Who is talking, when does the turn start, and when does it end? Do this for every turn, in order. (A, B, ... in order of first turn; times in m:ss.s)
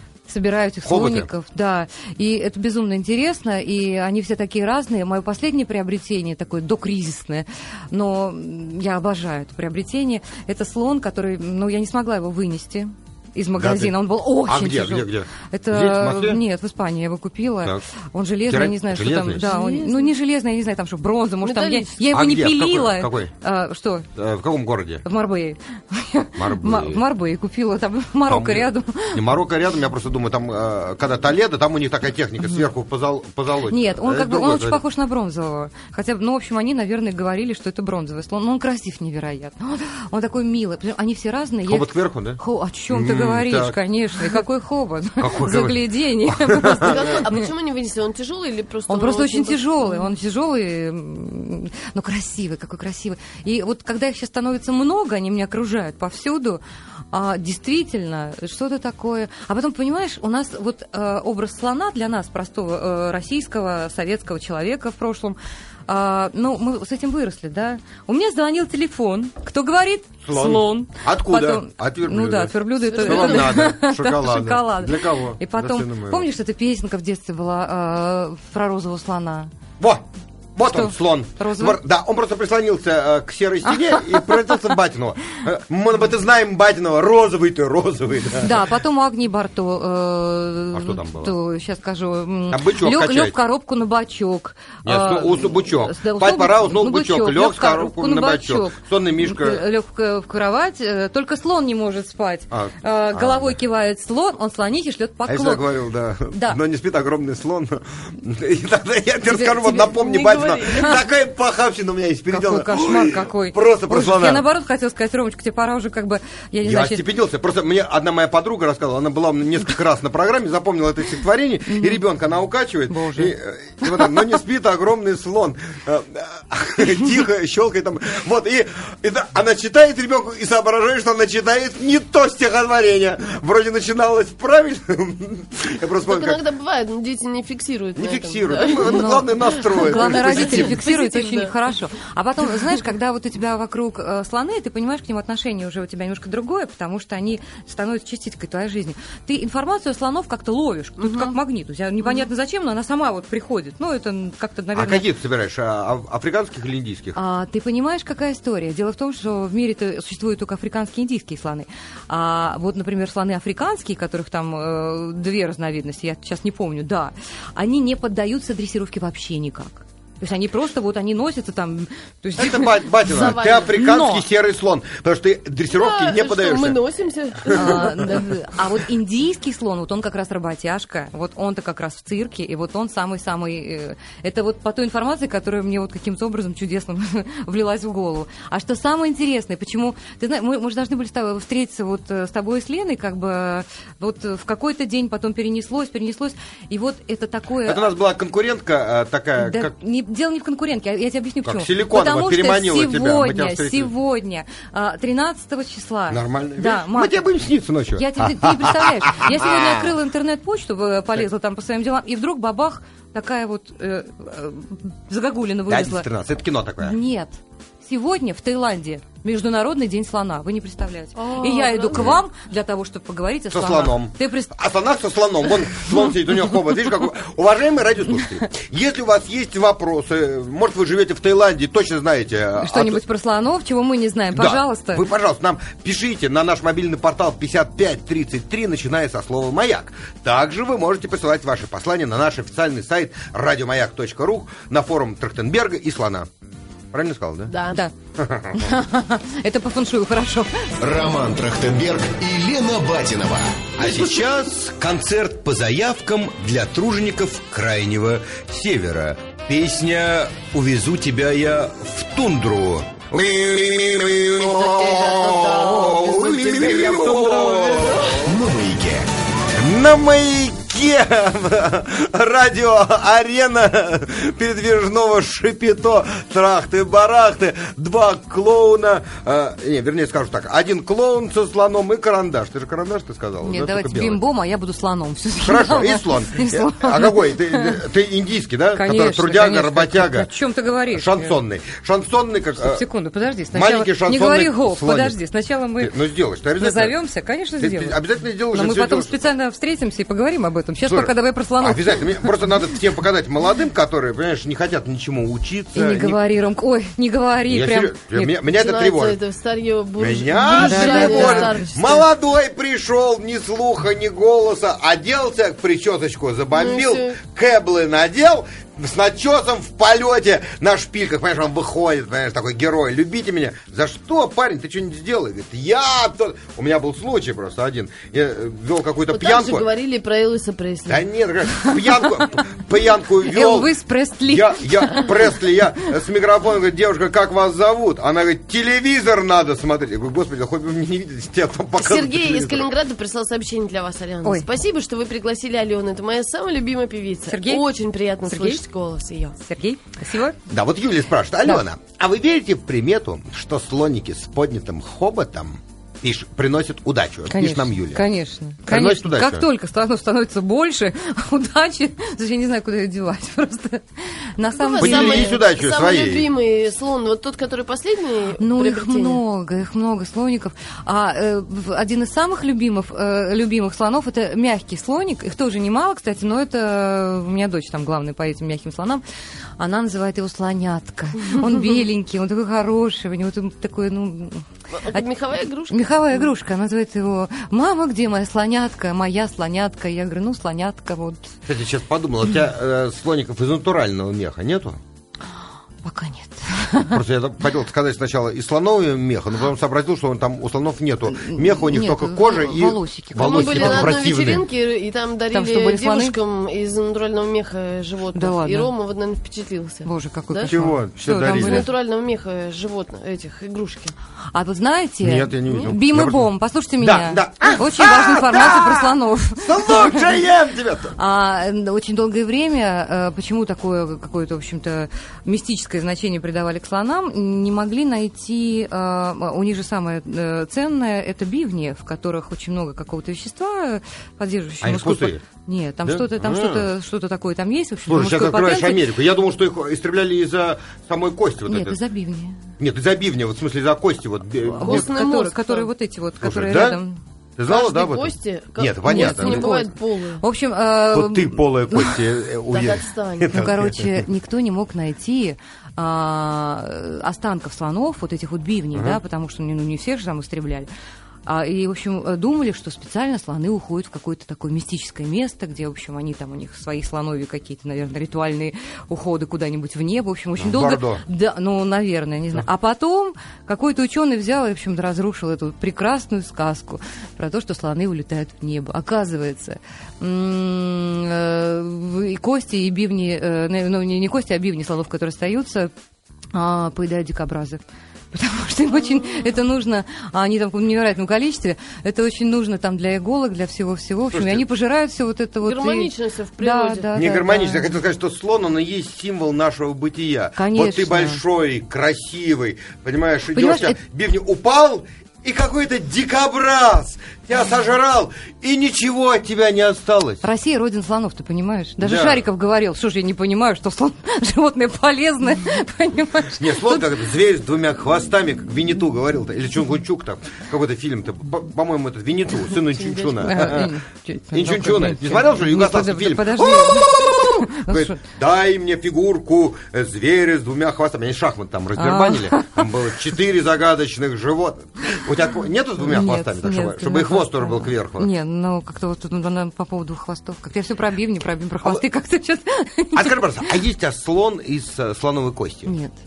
0:00.3-0:24.1 A
0:00.8-0:01.3 B
0:13.6-0:13.9 B
0:14.4-0:16.4 B
0:18.5-0:19.5 B
0:19.5-0:20.1 C
0:21.4-0:22.0 C
0:22.1-0:23.3 B
0:24.2-0:25.0 B
0:25.0-0:29.2 A
0:26.4-0:27.0 B
0:28.3-0:34.8 B
0:33.7-0:47.5 A
0:41.6-0:42.4 B
0:42.9-0:43.8 B
0:45.2-0:47.2 B
0:46.8-0:50.1 C
0:48.9-0:56.6 A
0:57.1-1:19.5 A
1:10.2-1:16.2 B
1:12.9-1:13.7 C
1:20.6-1:28.6 B
1:20.6-1:21.8 A
1:23.9-1:24.5 A
1:28.4-1:45.7 A
1:30.7-1:31.3 B
1:32.5-1:33.4 B
1:34.8-1:39.6 B
1:42.5-1:43.5 B
1:45.3-1:54.4 B
1:46.3-1:46.6 A
1:49.2-1:50.0 A
1:50.0-1:51.0 C
1:50.7-1:51.0 A
1:52.3-1:57.0 A
1:56.6-2:16.4 B
2:01.7-2:02.0 A
2:02.9-2:03.3 A
2:03.8-2:04.3 A
2:16.0-2:21.6 C
2:18.0-2:20.8 B
2:18.8-2:35.0 A
2:31.0-2:31.3 C
2:34.7-2:37.2 B
2:37.1-2:54.2 A
2:52.4-2:56.8 B
2:53.1-2:53.8 C
2:55.7-2:58.3 C
2:57.5-3:17.9 A
3:17.6-3:19.7 B
3:19.4-3:27.3 A
3:21.4-3:23.9 B
3:26.1-3:29.9 B
3:28.0-3:36.1 A
3:35.7-3:37.0 B
3:36.8-3:44.6 A
3:41.2-3:42.2 C
3:41.9-3:42.2 B
3:43.5-3:53.0 B
3:52.6-3:55.0 A
3:54.3-4:06.3 B
4:06.9-4:07.5 B
4:07.5-4:07.8 C
4:08.2-4:08.8 B
4:08.5-4:10.8 A
4:10.8-4:14.1 D
4:13.8-4:28.2 B
4:24.4-4:28.2 C
4:28.2-4:29.1 D
4:29.6-4:44.2 B
4:43.4-4:47.8 A
4:45.4-4:50.3 B
4:48.7-4:51.4 A
4:50.9-4:52.8 B
4:52.6-4:56.0 A
4:53.5-4:55.2 B
4:55.8-4:56.9 B
4:56.6-5:02.3 A
4:57.6-4:59.2 B
5:00.9-5:06.2 B
5:05.7-5:08.4 A
5:07.5-5:09.2 B
5:08.5-5:12.1 C
5:10.0-5:29.7 B
5:10.4-5:11.6 A
5:16.5-5:17.2 C
5:29.1-5:31.0 C
5:30.9-5:33.7 B
5:31.6-5:32.0 A
5:33.2-5:35.4 A
5:34.3-5:42.7 B
5:41.8-5:49.4 C
5:47.3-5:47.6 A
5:48.2-5:48.6 A
5:49.4-5:50.4 A
5:50.5-5:58.0 B
5:57.3-6:05.4 A
5:58.7-5:59.4 B
6:04.6-6:09.2 C
6:04.8-6:06.3 B
6:08.4-6:19.0 A
6:19.6-6:25.0 A
6:24.7-6:26.3 C
6:25.7-6:31.3 A
6:31.4-6:34.8 B
6:35.8-6:37.0 A
6:36.9-6:44.4 B
6:41.1-6:44.0 A
6:43.2-6:50.5 C
6:45.3-6:46.1 A
6:48.1-6:48.7 A
6:49.8-6:51.7 A
6:50.4-6:51.6 B
6:51.2-6:53.9 C
6:54.3-7:00.2 A
6:55.0-6:56.2 B
6:55.4-6:55.7 C
6:56.8-7:00.9 B
7:01.0-7:18.9 A
7:14.6-7:15.2 B
7:15.8-7:16.7 B
7:17.9-7:21.8 B
7:21.4-7:22.4 A
7:22.6-7:24.9 B
7:24.5-7:27.0 A
7:24.6-7:25.7 C
7:26.2-7:26.8 B
7:27.4-7:29.5 B
7:27.4-7:30.2 C
7:28.9-7:32.0 A
7:30.9-7:34.0 B
7:32.5-7:33.4 C
7:33.3-7:40.7 A
7:38.7-7:39.0 B
7:41.2-8:05.7 A
7:50.4-7:51.0 B
8:06.3-8:07.6 A
8:08.1-8:17.7 A
8:08.8-8:09.2 C
8:14.1-8:14.4 B
8:15.4-8:16.9 C
8:16.9-8:30.2 B
8:20.4-8:21.2 A
8:23.3-8:23.8 A
8:30.2-8:37.0 A
8:31.8-8:32.2 B
8:36.4-8:43.7 B
8:42.7-8:43.4 C
8:43.2-8:48.0 A
8:44.3-8:58.1 B
8:51.8-8:52.7 A
8:55.8-9:03.6 A
9:02.9-9:05.7 B
9:05.7-9:06.0 A